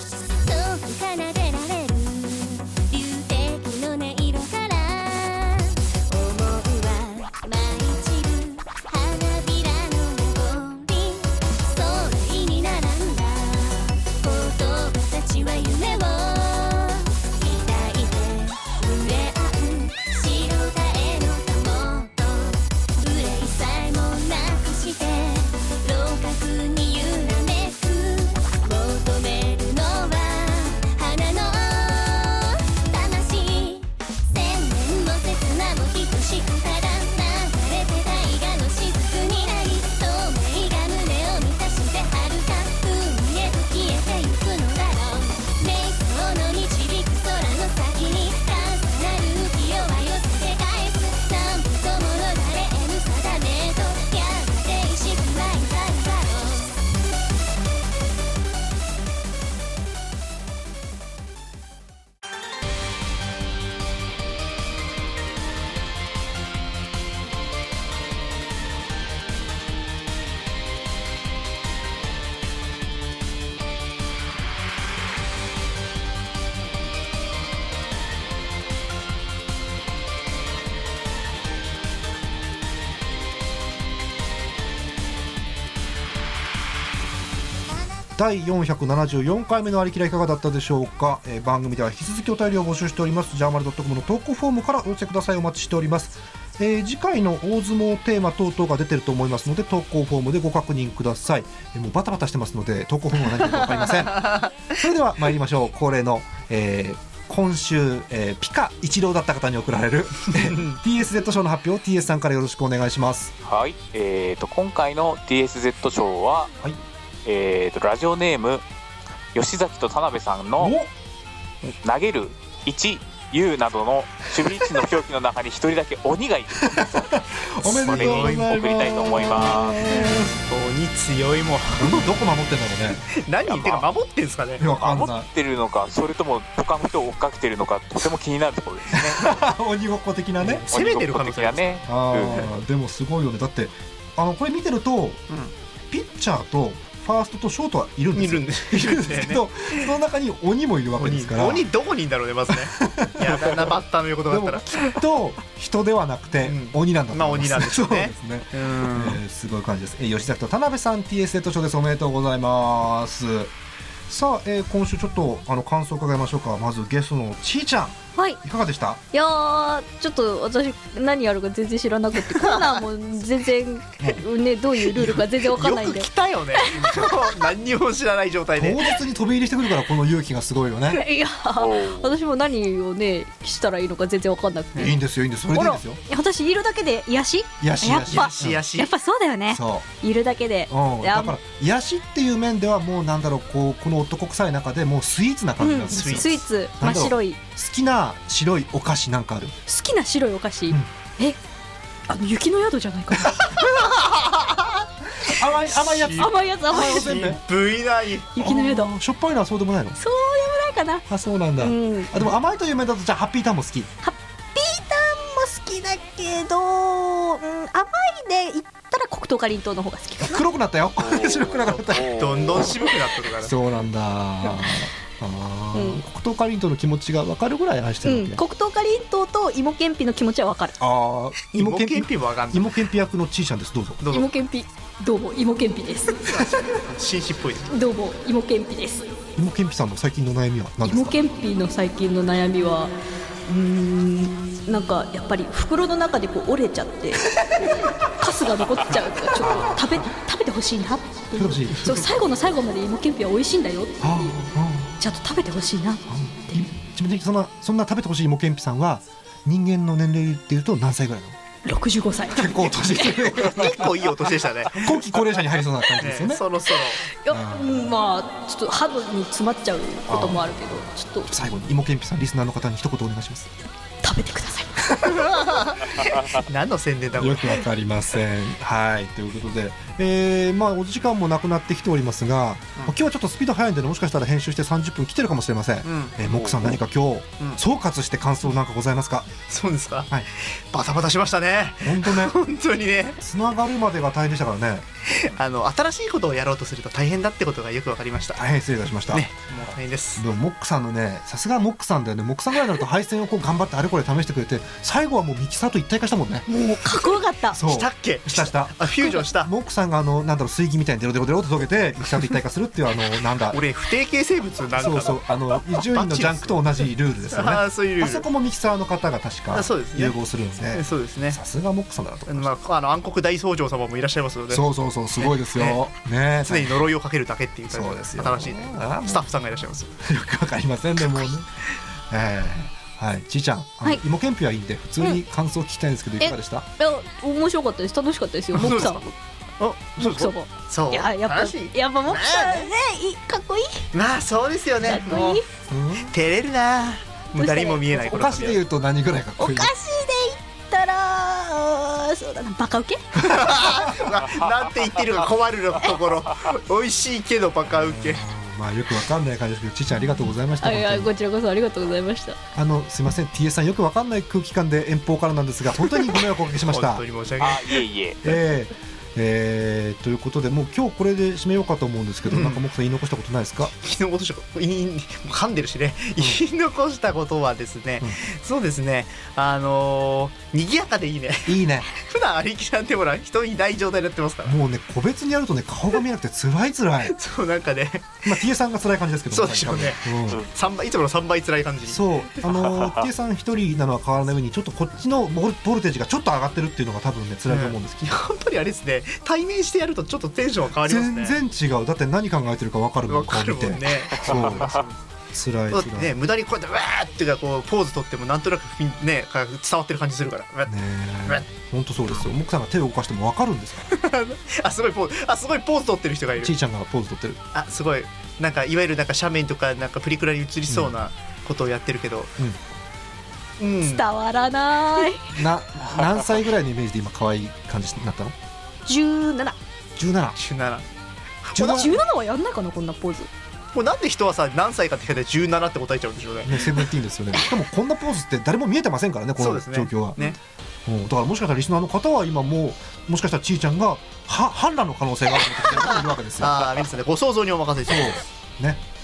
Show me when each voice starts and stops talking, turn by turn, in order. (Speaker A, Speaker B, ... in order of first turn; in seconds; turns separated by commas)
Speaker A: 0.4-56.8, Speaker B: 88.2-113.3, Speaker C: 103.5-104.5, Speaker C: 110.3-110.8, Speaker D: 113.4-116.5, Speaker D: 117.2-118.6, Speaker D: 119.3-120.7, Speaker B: 120.6-120.9, Speaker D: 121.8-129.8, Speaker B: 126.6-130.4, Speaker C: 127.8-128.6, Speaker C: 130.0-132.1, Speaker B: 131.8-133.1, Speaker C: 133.1-134.6, Speaker D: 133.4-133.8, Speaker B: 134.6-135.3, Speaker D: 134.7-139.3, Speaker B: 138.9-140.7, Speaker C: 140.4-141.8, Speaker D: 140.7-142.5, Speaker B: 141.8-145.2, Speaker B: 145.9-151.7, Speaker C: 148.1-149.9, Speaker C: 151.0-154.9, Speaker B: 152.8-153.5, Speaker B: 154.3-163.5, Speaker C: 156.4-159.2, Speaker B: 164.1-169.0, Speaker E: 169.1-176.9, Speaker C: 172.2-172.8, Speaker C: 174.9-178.9, Speaker B: 178.6-181.0, Speaker E: 180.8-184.9, Speaker D: 181.6-182.1, Speaker B: 184.8-186.0, Speaker E: 185.5-191.4, Speaker B: 187.6-188.6, Speaker C: 188.1-188.9, Speaker B: 189.5-189.9, Speaker B: 190.7-199.6, Speaker E: 195.6-197.4, Speaker C: 195.8-196.4, Speaker E: 199.7-201.4, Speaker E: 202.1-203.8, Speaker C: 203.4-204.8, Speaker B: 205.3-207.4, Speaker C: 205.8-208.3, Speaker E: 206.2-207.3, Speaker E: 208.3-208.9, Speaker B: 208.4-210.0, Speaker E: 209.9-211.0, Speaker B: 211.1-213.9, Speaker E: 211.6-212.2, Speaker E: 214.0-220.4, Speaker B: 220.2-222.7, Speaker D: 221.0-222.7, Speaker C: 221.7-223.5, Speaker B: 223.4-228.4, Speaker E: 225.7-226.0, Speaker E: 228.0-230.8, Speaker B: 230.8-234.0, Speaker C: 231.4-232.8, Speaker C: 234.0-234.3, Speaker E: 234.1-236.2, Speaker C: 236.2-237.7, Speaker E: 237.7-239.1, Speaker B: 239.4-241.2, Speaker E: 240.8-242.9, Speaker E: 243.5-254.3, Speaker B: 251.3-251.9, Speaker B: 254.0-254.9, Speaker E: 255.0-256.6, Speaker B: 256.1-261.4, Speaker E: 261.6-263.4, Speaker B: 262.3-263.9, Speaker C: 263.3-265.1, Speaker B: 264.7-266.4, Speaker C: 266.0-267.1, Speaker E: 267.1-271.4, Speaker B: 267.3-267.7, Speaker B: 270.1-270.5, Speaker B: 271.2-273.5, Speaker E: 274.0-275.0, Speaker C: 275.0-277.7, Speaker B: 275.9-276.2, Speaker B: 277.2-289.3, Speaker C: 285.8-286.2, Speaker C: 289.4-293.2, Speaker B: 291.8-292.4, Speaker B: 293.2-294.9, Speaker C: 295.0-298.4, Speaker B: 298.4-299.3, Speaker C: 299.1-300.2, Speaker B: 300.2-306.5, Speaker E: 306.5-307.6, Speaker B: 307.5-308.8, Speaker C: 307.6-309.5, Speaker B: 309.4-313.6, Speaker C: 313.5-318.2, Speaker B: 314.8-322.5, Speaker C: 319.5-320.2, Speaker C: 320.7-321.4, Speaker C: 322.3-324.6, Speaker B: 324.5-326.9, Speaker C: 325.2-325.8, Speaker C: 326.4-329.9, Speaker B: 327.7-329.2, Speaker B: 330.0-331.5, Speaker B: 332.1-336.7, Speaker E: 336.2-339.0, Speaker B: 338.5-339.0, Speaker C: 338.6-339.0, Speaker C: 339.6-342.7, Speaker E: 340.0-343.9, Speaker C: 343.9-345.4, Speaker E: 344.8-345.5, Speaker B: 345.7-346.1, Speaker C: 346.1-348.6, Speaker E: 347.4-348.1, Speaker B: 348.1-349.7, Speaker E: 349.4-353.3, Speaker C: 353.1-358.2, Speaker B: 353.3-354.0, Speaker B: 357.7-361.1, Speaker E: 360.6-362.4, Speaker B: 362.5-367.0, Speaker C: 366.1-367.9, Speaker D: 367.4-368.2, Speaker B: 368.2-373.7, Speaker C: 372.3-372.6, Speaker C: 373.7-384.6, Speaker B: 376.2-376.4, Speaker B: 381.4-381.9, Speaker B: 384.4-387.1, Speaker C: 387.0-388.3, Speaker B: 388.2-390.4, Speaker C: 389.3-392.1, Speaker B: 391.9-398.1, Speaker D: 392.6-393.1, Speaker C: 397.5-401.4, Speaker B: 400.8-404.8, Speaker C: 403.1-404.9, Speaker D: 404.2-404.8, Speaker B: 405.3-406.1, Speaker C: 405.7-410.7, Speaker B: 410.7-413.9, Speaker C: 413.9-416.5, Speaker B: 416.4-417.4, Speaker C: 417.5-422.3, Speaker B: 420.7-420.9, Speaker C: 423.6-424.0, Speaker E: 423.8-425.3, Speaker B: 425.3-428.3, Speaker E: 428.9-429.6, Speaker B: 430.0-430.4, Speaker C: 430.4-430.8, Speaker C: 431.4-431.9, Speaker B: 431.5-431.9, Speaker E: 431.7-433.3, Speaker C: 433.7-436.7, Speaker B: 436.4-440.2, Speaker C: 439.4-440.4, Speaker B: 440.9-446.7, Speaker C: 446.4-448.2, Speaker B: 447.9-448.8